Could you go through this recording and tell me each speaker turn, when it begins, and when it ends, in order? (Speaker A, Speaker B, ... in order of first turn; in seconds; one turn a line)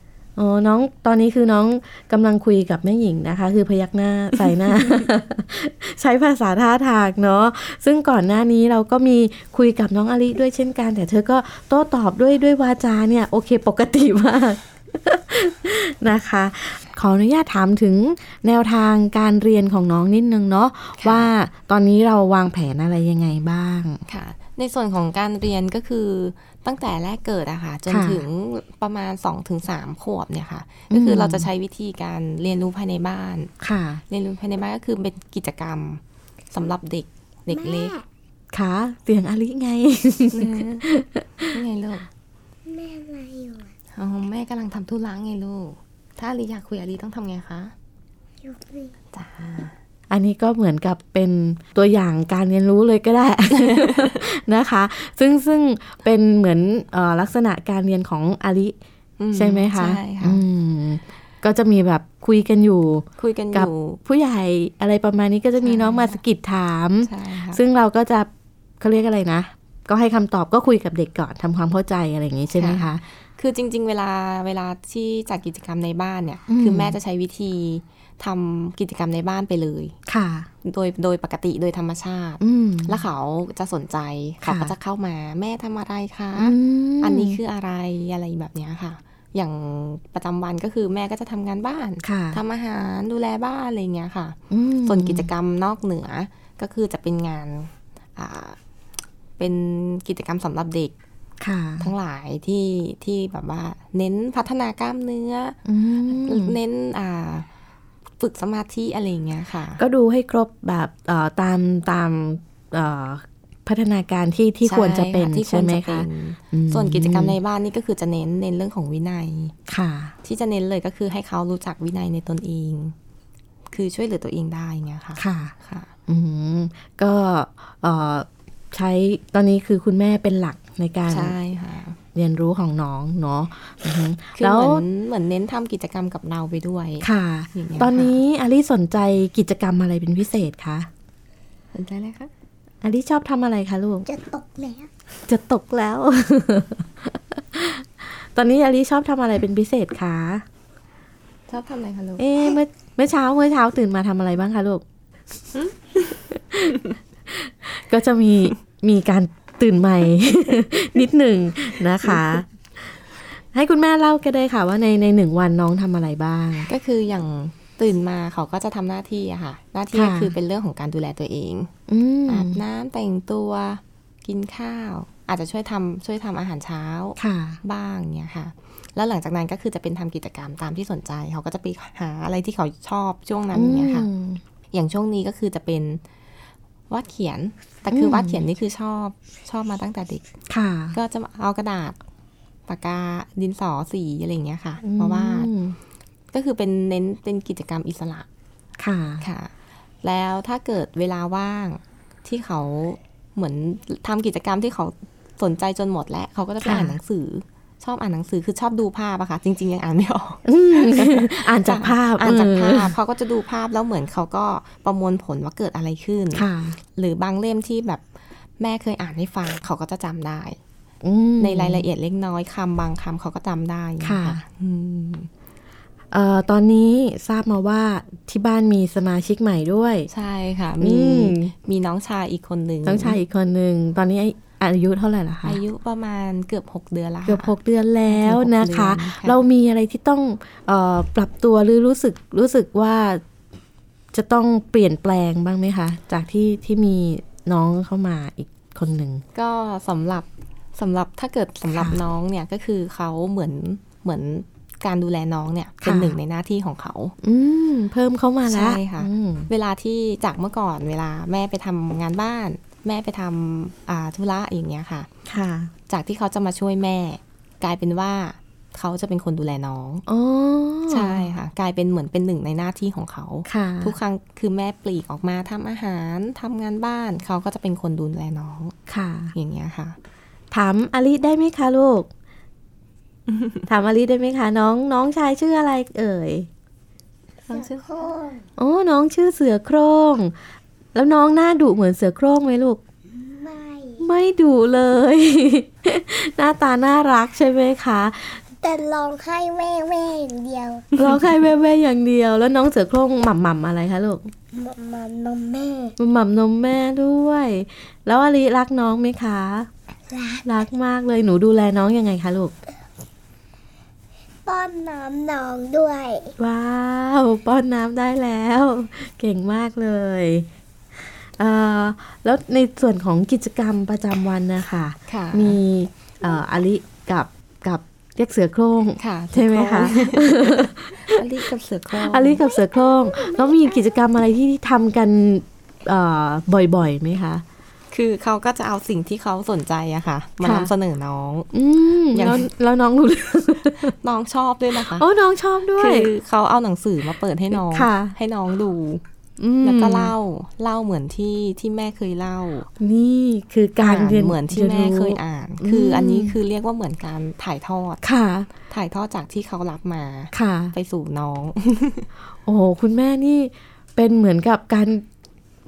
Speaker A: 0.4-24.0
Speaker B: 21.0-21.3
Speaker B: 24.1-33.5
Speaker A: 27.9-28.2
Speaker A: 30.9-31.5
Speaker A: 33.6-34.0
Speaker B: 34.1-36.0
Speaker B: 36.5-38.0
Speaker C: 37.5-38.0
Speaker A: 38.5-41.5
Speaker B: 40.3-40.9
Speaker B: 41.5-42.1
Speaker C: 42.7-43.7
Speaker B: 44.0-47.7
Speaker C: 48.4-48.9
Speaker B: 49.1-49.7
Speaker A: 50.1-58.8
Speaker B: 53.6-54.1
Speaker B: 59.2-60.4
Speaker A: 59.3-73.0
Speaker B: 63.2-64.0
Speaker B: 65.6-66.2
Speaker B: 67.0-67.6
Speaker B: 72.6-72.8
Speaker B: 73.4-80.0
Speaker A: 76.5-77.0
Speaker A: 80.1-80.5
Speaker B: 80.6-98.6
Speaker A: 82.4-83.0
Speaker A: 84.4-84.7
Speaker A: 86.4-87.4
Speaker A: 92.0-92.4
Speaker A: 94.5-95.3
Speaker B: 99.4-101.0
Speaker A: 101.4-101.9
Speaker B: 101.8-107.5
Speaker A: 105.7-106.6
Speaker B: 108.2-109.8
Speaker A: 109.8-117.4
Speaker B: 114.6-119.5
Speaker A: 119.7-120.1
Speaker B: 120.2-123.0
Speaker B: 123.7-125.9
Speaker A: 125.2-125.5
Speaker A: 126.1-131.3
Speaker B: 131.1-132.0
Speaker A: 132.2-134.8
Speaker B: 134.3-138.2
Speaker A: 137.0-140.9
Speaker B: 141.7-142.3
Speaker A: 142.8-144.1
Speaker C: 144.1-144.9
Speaker A: 145.3-150.4
Speaker B: 151.5-152.3
Speaker A: 152.2-154.8
Speaker B: 155.6-156.2
Speaker A: 156.3-163.0
Speaker A: 163.5-166.7
Speaker B: 166.7-171.7
Speaker A: 169.9-170.3
Speaker A: 171.9-172.6
Speaker B: 172.3-184.1
Speaker A: 177.2-177.6
Speaker A: 183.5-184.4
Speaker B: 184.7-186.0
Speaker B: 186.9-190.3
Speaker A: 187.9-188.4
Speaker A: 190.5-191.0
Speaker B: 190.9-192.0
Speaker B: 192.7-195.5
Speaker A: 194.8-195.8
Speaker B: 196.3-198.3
Speaker A: 198.8-199.2
Speaker B: 199.2-218.0
Speaker A: 206.6-207.0
Speaker A: 210.5-212.9
Speaker A: 216.3-216.8
Speaker B: 218.6-220.6
Speaker A: 221.0-221.8
Speaker B: 221.4-225.3
Speaker A: 224.0-224.4
Speaker A: 226.1-230.1
Speaker B: 230.1-233.2
Speaker A: 230.8-231.5
Speaker A: 232.9-235.6
Speaker B: 235.4-237.5
Speaker A: 237.3-243.2
Speaker B: 238.1-239.4
Speaker A: 244.1-249.2
Speaker B: 249.3-257.1
Speaker A: 255.8-256.1
Speaker A: 257.2-259.5
Speaker B: 258.5-265.1
Speaker A: 265.3-265.7
Speaker B: 265.9-270.0
Speaker A: 270.1-271.3
Speaker B: 270.9-278.8
Speaker A: 273.5-273.9
Speaker A: 278.9-279.3
Speaker B: 279.4-280.0
Speaker A: 280.5-282.1
Speaker B: 283.3-283.6
Speaker A: 283.7-286.5
Speaker B: 287.5-288.1
Speaker C: 287.5-288.4
Speaker A: 288.6-290.3
Speaker A: 290.9-292.8
Speaker C: 293.1-294.1
Speaker A: 294.0-298.4
Speaker C: 298.6-301.1
Speaker A: 301.0-304.3
Speaker C: 304.5-305.9
Speaker A: 306.0-309.7
Speaker C: 310.1-310.5
Speaker A: 310.5-312.5
Speaker C: 314.5-316.3
Speaker A: 316.4-320.5
Speaker A: 321.4-331.2
Speaker B: 325.1-325.6
Speaker B: 329.0-332.4
Speaker A: 332.0-337.4
Speaker B: 337.9-341.5
Speaker A: 340.4-340.7
Speaker A: 341.5-343.9
Speaker B: 342.1-342.5
Speaker B: 344.0-345.1
Speaker A: 344.8-346.1
Speaker B: 345.8-349.0
Speaker A: 347.5-348.1
Speaker A: 349.4-350.1
Speaker B: 349.6-352.7
Speaker A: 352.8-356.4
Speaker B: 353.8-358.0
Speaker A: 358.0-358.5
Speaker B: 358.6-362.1
Speaker A: 360.3-360.7
Speaker A: 362.4-365.0